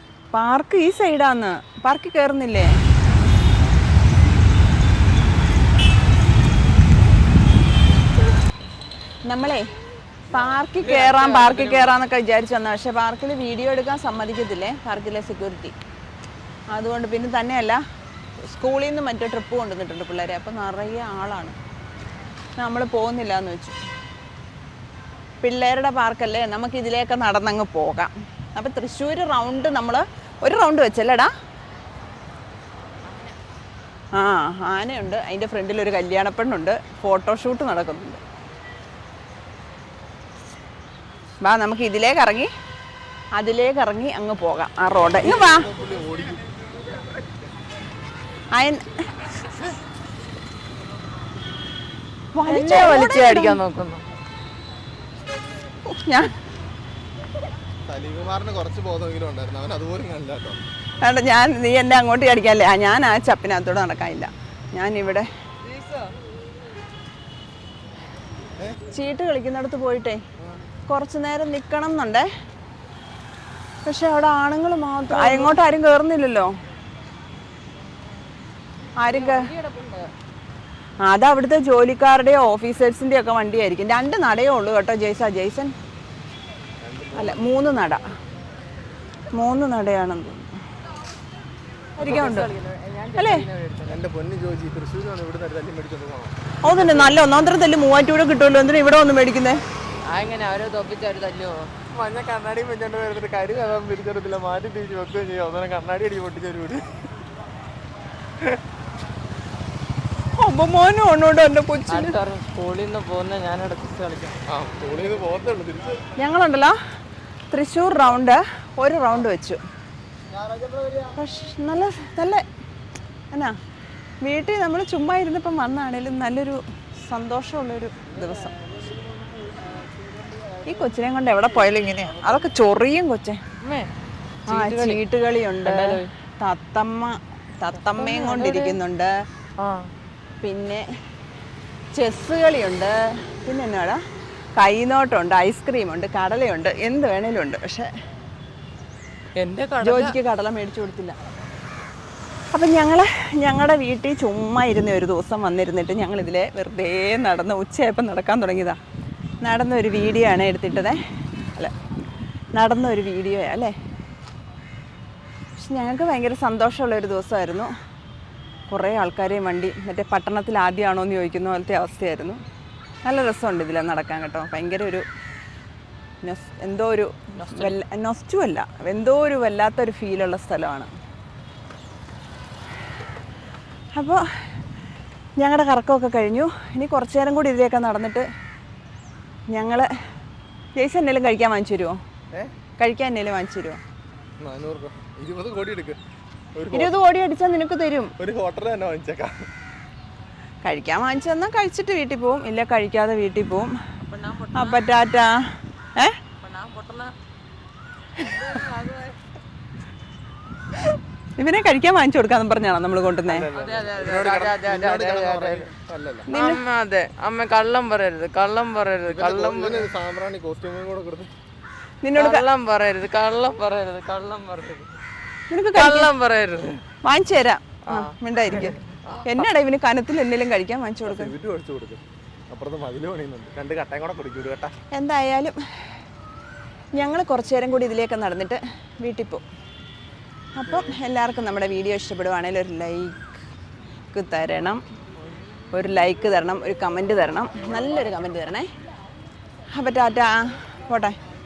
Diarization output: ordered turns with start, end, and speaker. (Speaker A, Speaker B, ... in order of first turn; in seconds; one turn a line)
Speaker A: 0.3-2.7
Speaker A: 9.2-9.7
Speaker A: 10.3-15.7
Speaker B: 10.3-11.9
Speaker A: 16.7-17.8
Speaker A: 18.4-21.6
Speaker A: 22.6-23.8
Speaker A: 25.4-31.3
Speaker B: 33.0-33.4
Speaker A: 34.1-38.2
Speaker A: 41.4-42.5
Speaker A: 43.4-45.7
Speaker C: 45.2-46.5
Speaker A: 48.5-48.9
Speaker A: 52.3-53.6
Speaker B: 52.5-54.0
Speaker A: 55.9-56.3
Speaker C: 57.9-60.6
Speaker A: 61.0-65.3
Speaker B: 65.6-66.1
Speaker A: 68.9-70.2
Speaker A: 70.9-72.3
Speaker A: 73.8-76.5
Speaker B: 75.1-75.5
Speaker A: 79.0-79.5
Speaker B: 79.0-80.1
Speaker A: 81.0-85.7
Speaker C: 86.8-87.6
Speaker A: 87.1-88.0
Speaker A: 89.3-90.5
Speaker A: 92.0-92.5
Speaker B: 92.0-94.0
Speaker A: 93.2-93.4
Speaker C: 93.9-97.2
Speaker A: 96.6-99.6
Speaker B: 100.1-101.7
Speaker C: 101.9-106.9
Speaker A: 110.4-112.1
Speaker B: 111.9-114.4
Speaker C: 114.5-116.0
Speaker A: 116.2-116.7
Speaker A: 117.5-119.6
Speaker A: 121.1-122.4
Speaker A: 124.2-128.5
Speaker A: 130.6-133.4
Speaker B: 133.6-133.9
Speaker B: 134.5-135.0
Speaker A: 134.5-139.1
Speaker B: 135.6-136.1
Speaker B: 137.8-138.8
Speaker B: 139.6-139.9
Speaker A: 140.4-140.8
Speaker A: 141.9-144.0
Speaker A: 144.6-147.9
Speaker B: 149.3-150.1
Speaker A: 149.8-151.2
Speaker A: 152.5-158.8
Speaker A: 159.4-161.0
Speaker A: 162.5-163.7
Speaker A: 165.6-167.7
Speaker A: 168.7-172.4
Speaker A: 173.0-175.0
Speaker A: 176.2-180.9
Speaker B: 177.4-177.7
Speaker A: 183.9-184.2
Speaker A: 185.4-188.2
Speaker A: 189.5-189.9
Speaker A: 190.8-192.0
Speaker A: 192.8-193.8
Speaker C: 194.4-196.0
Speaker C: 196.5-196.9
Speaker A: 196.7-198.1
Speaker C: 198.2-199.5
Speaker A: 200.6-203.7
Speaker B: 204.0-204.8
Speaker A: 204.5-205.4
Speaker B: 206.4-207.1
Speaker B: 208.2-209.2
Speaker A: 211.4-213.5
Speaker C: 213.3-216.3
Speaker B: 213.5-215.7
Speaker A: 216.3-216.6
Speaker B: 216.3-219.9
Speaker C: 219.1-221.3
Speaker A: 222.0-222.4
Speaker B: 222.2-224.9
Speaker A: 225.5-226.1
Speaker B: 225.7-226.8
Speaker A: 227.0-231.3
Speaker B: 227.9-229.5
Speaker C: 231.1-234.8
Speaker A: 234.9-235.6
Speaker A: 236.9-239.4
Speaker A: 240.5-243.3
Speaker C: 240.7-240.9
Speaker A: 244.1-244.8
Speaker A: 245.7-248.7
Speaker A: 249.7-251.2